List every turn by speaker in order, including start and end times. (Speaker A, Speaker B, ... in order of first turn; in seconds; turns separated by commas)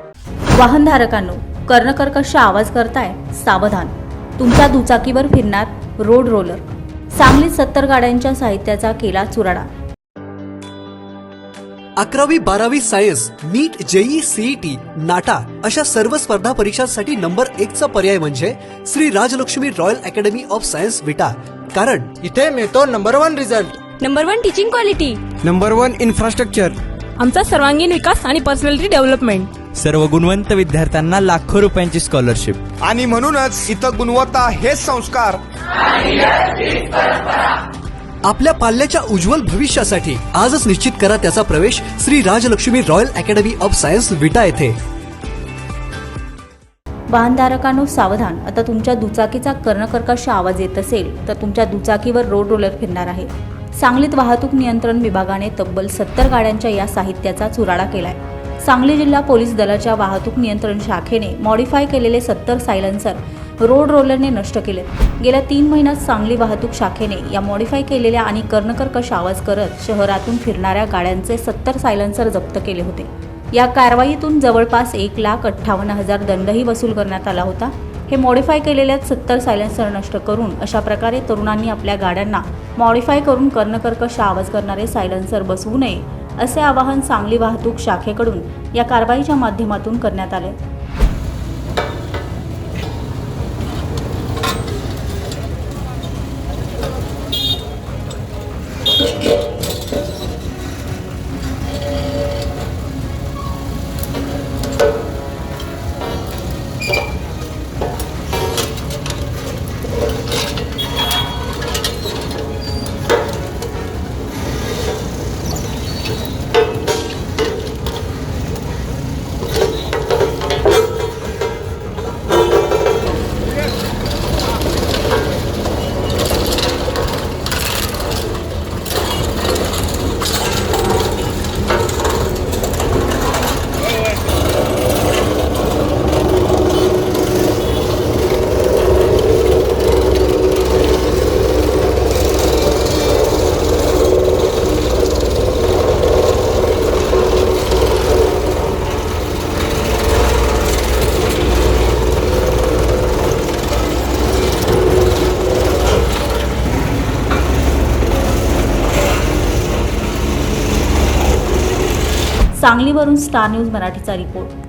Speaker A: 0.5-9.7, Speaker B: 12.0-22.1, Speaker C: 22.2-23.8, Speaker D: 24.0-25.2, Speaker C: 25.4-26.8, Speaker D: 27.2-29.5, Speaker E: 29.8-32.6, Speaker F: 32.8-35.4, Speaker B: 38.3-44.8, Speaker A: 47.1-90.6, Speaker A: 162.6-164.5